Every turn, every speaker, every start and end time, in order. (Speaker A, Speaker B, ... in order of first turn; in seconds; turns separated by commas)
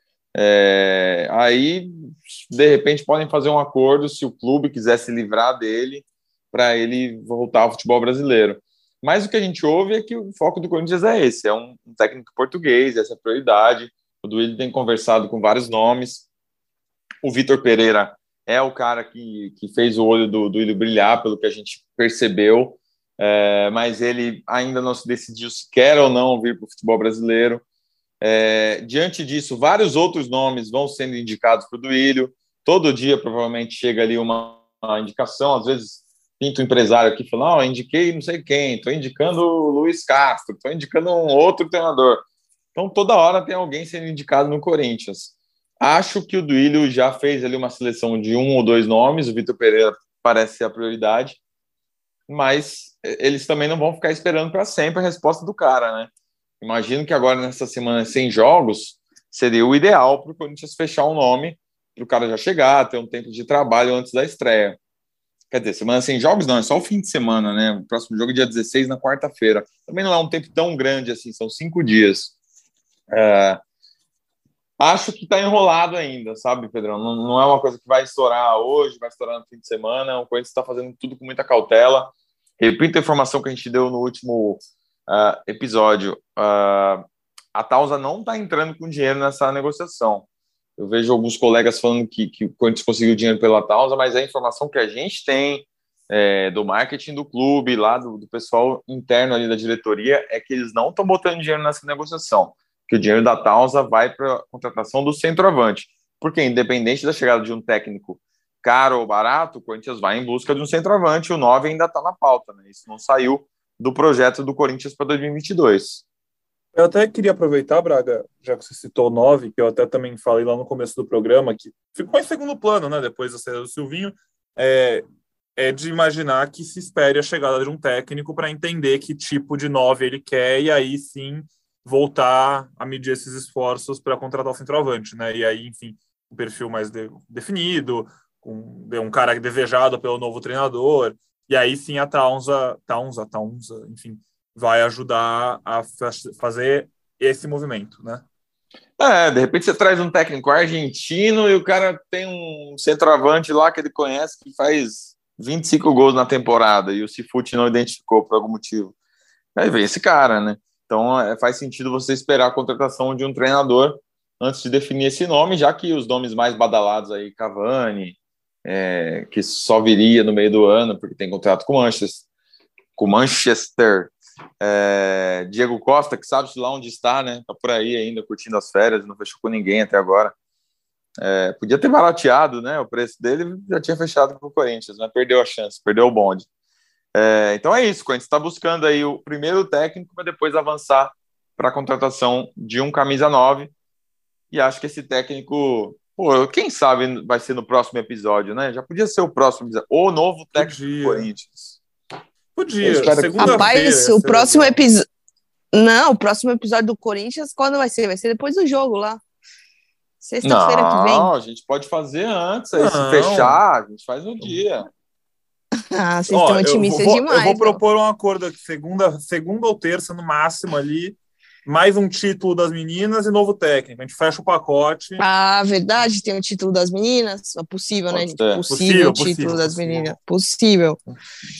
Speaker A: 0.3-16.2, Speaker A: 17.2-27.6, Speaker A: 28.2-51.4, Speaker A: 52.3-64.8, Speaker A: 65.5-72.3, Speaker A: 73.1-73.6, Speaker A: 74.8-90.2, Speaker A: 90.8-116.0, Speaker B: 116.7-125.0, Speaker B: 125.5-148.2, Speaker A: 149.0-158.9, Speaker A: 159.6-172.2, Speaker A: 172.9-180.3, Speaker A: 181.2-186.5, Speaker A: 187.2-193.7, Speaker A: 194.5-201.8, Speaker B: 200.5-201.3, Speaker B: 202.5-204.8, Speaker A: 202.8-203.7, Speaker C: 203.4-205.0, Speaker C: 205.7-209.2, Speaker C: 210.2-211.3, Speaker A: 210.4-214.9, Speaker B: 212.7-213.6, Speaker B: 214.4-214.7, Speaker C: 215.9-217.8, Speaker B: 216.3-225.2, Speaker C: 225.2-231.0, Speaker A: 228.1-228.7, Speaker B: 228.7-230.1